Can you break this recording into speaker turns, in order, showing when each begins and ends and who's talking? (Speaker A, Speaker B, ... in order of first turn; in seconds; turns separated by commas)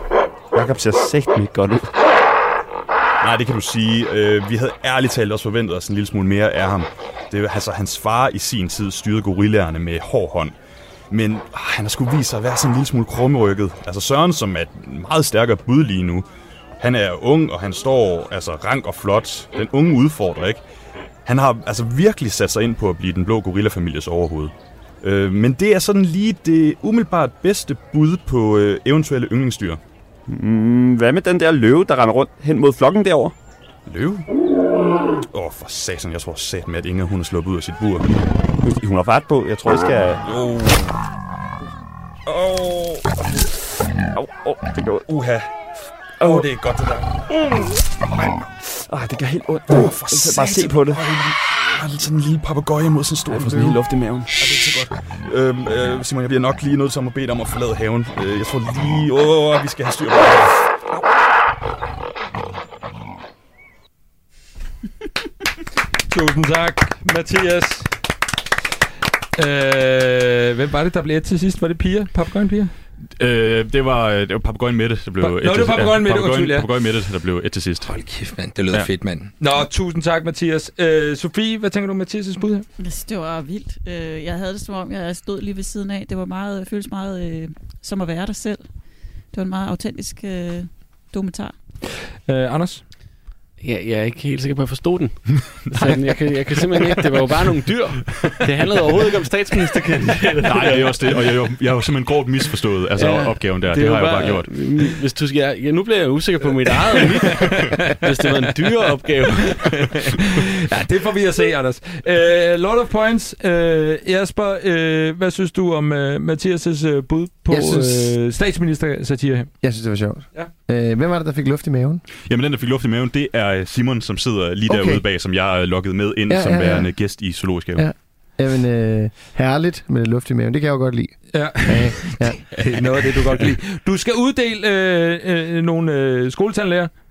Speaker A: 0.5-1.9, Speaker B: 3.2-10.6, Speaker B: 11.1-16.3, Speaker B: 16.8-20.6, Speaker B: 21.2-29.8, Speaker A: 30.3-33.4, Speaker B: 33.9-34.3, Speaker B: 35.3-38.1, Speaker A: 38.6-40.2, Speaker B: 40.3-40.9, Speaker B: 42.3-43.2, Speaker A: 44.2-45.1, Speaker B: 45.1-45.5, Speaker A: 46.2-46.5, Speaker B: 46.2-47.2, Speaker A: 47.3-47.7, Speaker A: 48.9-51.0, Speaker B: 49.7-61.0, Speaker A: 53.3-53.8, Speaker C: 66.1-67.9, Speaker C: 69.4-72.7, Speaker B: 73.2-77.9, Speaker C: 75.2-76.7, Speaker C: 77.8-82.7, Speaker D: 82.8-88.6, Speaker D: 89.3-91.5, Speaker C: 92.3-92.8, Speaker E: 93.6-101.2, Speaker B: 100.4-104.5, Speaker E: 103.0-110.0, Speaker C: 107.4-108.5, Speaker C: 109.5-119.5, Speaker F: 117.5-118.1, Speaker F: 119.6-122.0, Speaker B: 122.3-127.9, Speaker F: 124.7-125.0, Speaker F: 126.3-126.9, Speaker F: 127.8-132.6, Speaker C: 131.3-136.9